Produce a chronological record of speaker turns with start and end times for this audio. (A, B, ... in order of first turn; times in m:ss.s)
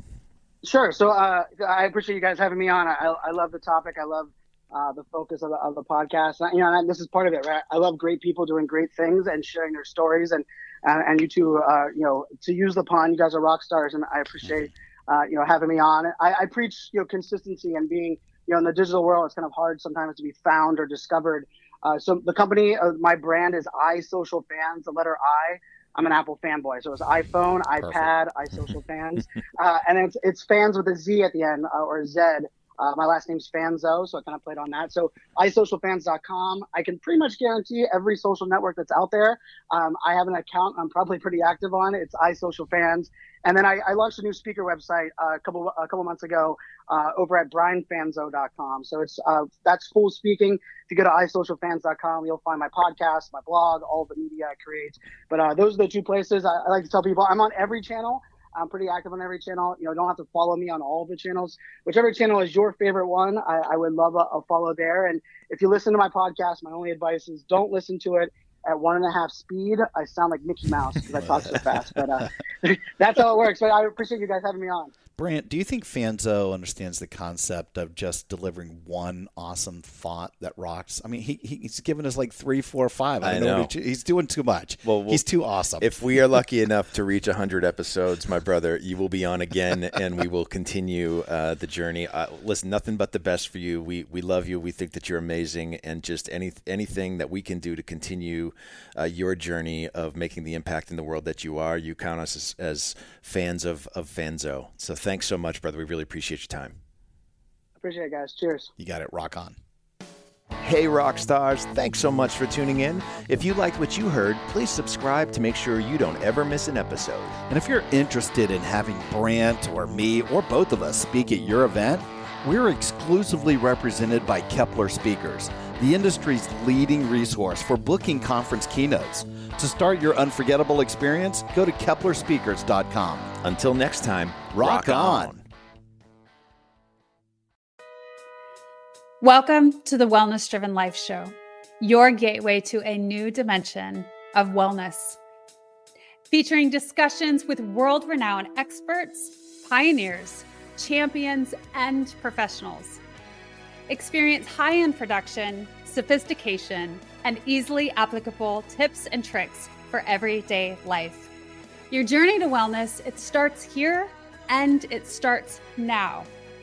0:00.6-1:14.9 A
1:15.2-1:25.9 B
1:23.2-1:23.7 C
1:24.8-1:25.2 C
1:25.8-1:46.8 C
1:47.8-1:48.7 A
1:48.8-1:49.6 B
1:50.6-1:57.4 C
1:57.5-2:13.3 B
2:13.4-2:15.4 C
2:14.5-2:15.4 B
2:19.2-2:25.2 D
2:26.3-2:33.0 D
2:33.9-2:41.3 D
2:41.9-2:46.3 D